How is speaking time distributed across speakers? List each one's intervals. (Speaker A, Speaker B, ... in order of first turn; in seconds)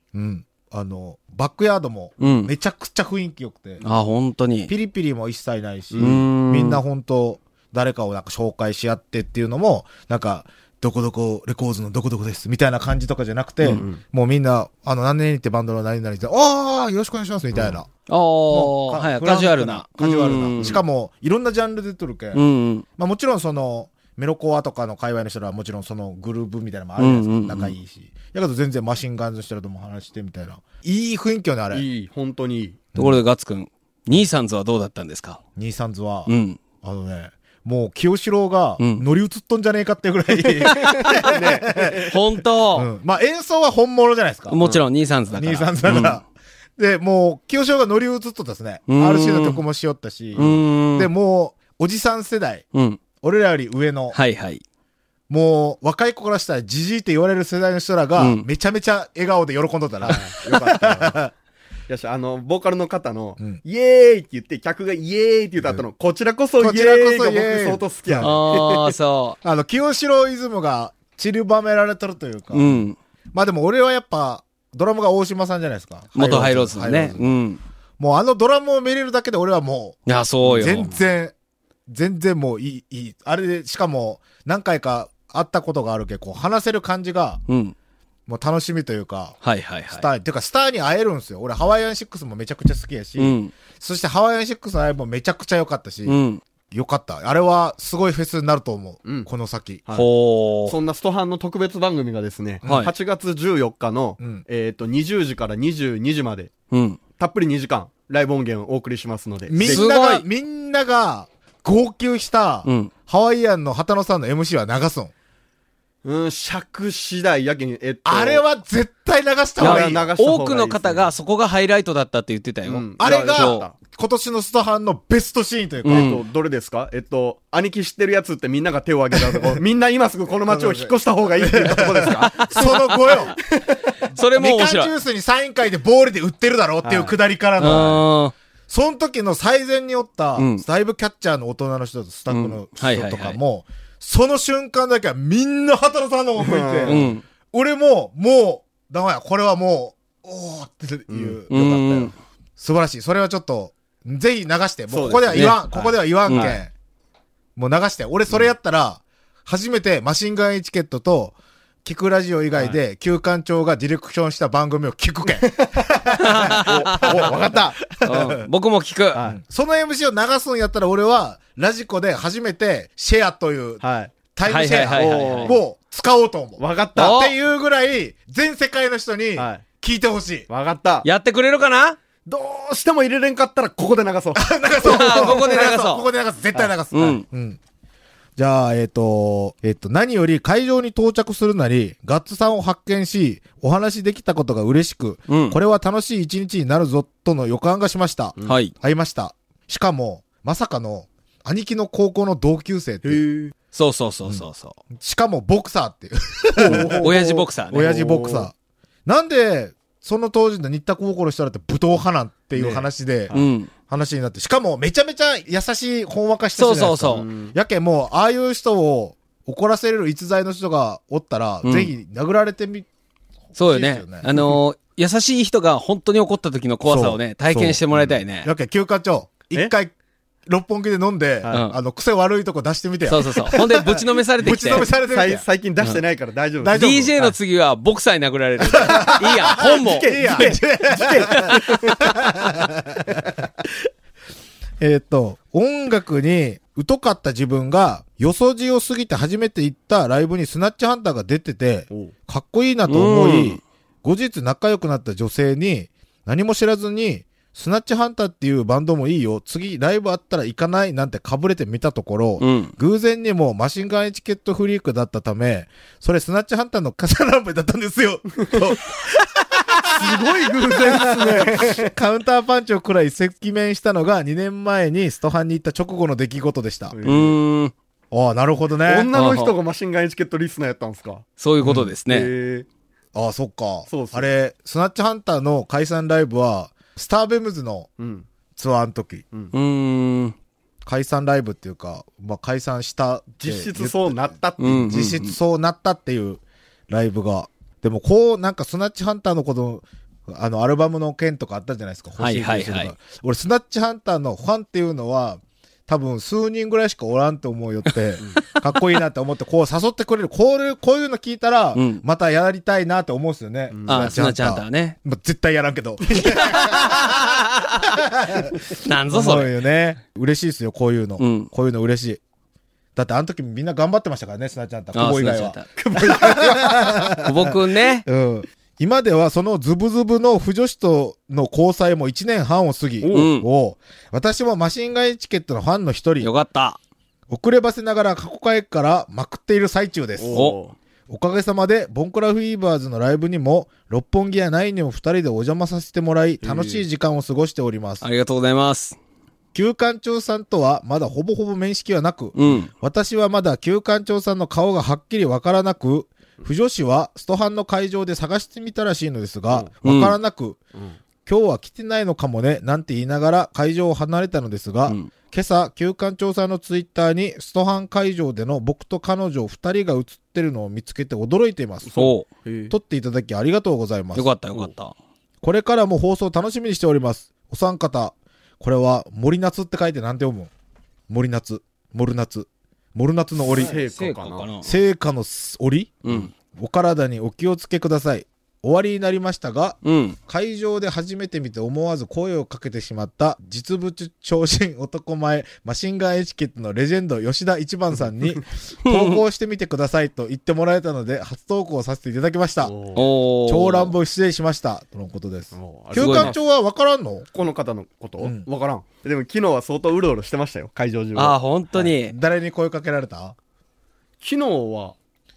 Speaker A: 0.1-3.8, 4.7-17.9, 18.5-22.4, 23.0-31.9, 33.0-33.2, 35.6-42.2, 42.7-44.6, 45.4-46.2, 46.8-52.7, 53.2-54.2, 55.3-61.3, 66.6-68.3, 69.4-72.8, 73.3-77.4, 78.0-80.0, 80.6-81.3, 81.9-87.4, 88.3-96.2, 96.7-99.8, 102.6-102.9, 109.5-115.1, 118.0-120.1, 123.0-126.2, 129.3-129.6, 130.5-133.4, 134.1-138.1, 138.7-156.7, 157.6-168.5, 169.2-173.8, 174.3-180.5, 184.3-187.6, 188.4-203.2, 204.2-208.5, 209.1-213.3, 213.9-222.9, 223.5-224.5, 226.9-229.9, 230.5-235.4, 236.6-237.2, 238.7-243.7, 244.8-277.0, 278.1-279.1, 281.6-281.9, 283.1-287.9, 288.6-289.2, 290.8-322.2, 323.0-336.3, 337.3-340.5, 341.1-348.0, 349.5-360.6, 361.3-372.0, 372.7-374.3, 375.4-380.5, 381.1-383.8, 384.6-402.8, 403.4-407.3, 408.2-408.5, 411.8-413.4
Speaker B: 2.2-2.5, 3.8-4.7, 6.0-6.8, 18.1-20.8, 22.4-22.9, 27.0-27.8, 33.0-35.4, 36.3-36.6, 38.8-39.0, 42.1-42.9, 44.5-46.2, 48.9-49.6, 50.4-51.1, 52.7-53.0, 54.1-54.6, 58.2-58.5, 68.2-69.4, 72.5-73.0, 76.2-77.6, 80.1-80.9, 87.5-87.7, 89.4-90.1, 93.2-93.5, 96.1-96.4, 99.9-100.8, 102.7-102.9, 106.7-107.0, 109.6-110.2, 112.7-112.9, 119.6-123.7, 125.8-126.2, 132.3-133.2, 134.1-134.9, 137.6-138.3, 140.4-140.6, 142.3-143.4, 146.9-147.2, 151.5-152.1, 155.3-155.6, 156.3-156.6, 166.2-167.3, 168.0-169.2, 174.5-175.6, 176.9-177.3, 181.0-182.0, 184.8-186.1, 186.9-187.2, 195.3-195.6, 198.5-198.7, 203.7-204.8, 206.9-208.0, 213.3-213.7, 216.6-217.3, 221.6-221.9, 223.6-228.5, 233.1-234.9, 236.7-240.6, 241.3-241.6, 252.9-253.6, 262.4-262.8, 277.1-277.7, 279.1-279.5, 281.4-282.3, 289.5-290.4, 294.6-295.4, 302.2-302.9, 308.5-309.0, 311.8-312.0, 313.9-315.0, 316.1-318.0, 318.7-319.6, 321.2-321.5, 324.9-325.7, 327.1-328.1, 333.1-333.5, 336.2-336.8, 348.0-349.0, 352.4-352.7, 359.9-360.1, 372.0-372.3, 374.1-374.9, 383.5-384.7, 386.1-386.3, 389.8-390.2, 398.8-399.2, 402.9-403.9, 405.9-406.4, 411.2-412.1
Speaker C: 5.9-6.3, 13.7-14.0, 17.5-17.8, 31.7-32.8, 40.6-42.2, 60.0-61.2, 61.9-69.0, 80.4-81.0, 100.7-106.5, 107.2-109.8, 116.0-118.5, 119.6-121.1, 122.7-123.8, 125.8-133.9, 136.8-137.2, 146.4-147.1, 151.1-151.4, 154.9-156.6, 165.4-165.8, 166.4-167.6, 173.8-174.1, 174.9-175.6, 176.6-177.2, 179.4-179.7, 180.5-181.1, 182.3-185.4, 203.0-203.5, 206.6-207.2, 207.9-208.5, 212.5-213.5, 217.1-217.6, 235.0-237.3, 238.9-242.1, 269.9-271.9, 276.9-277.4, 278.9-281.3, 282.1-282.7, 283.9-284.3, 288.0-288.3, 293.4-295.0, 313.7-314.2, 325.8-327.2, 333.0-333.3, 340.2-340.8, 346.4-346.8, 371.9-372.7, 383.5-384.5, 402.6-403.1, 405.5-406.4, 407.3-411.4, 414.2-414.9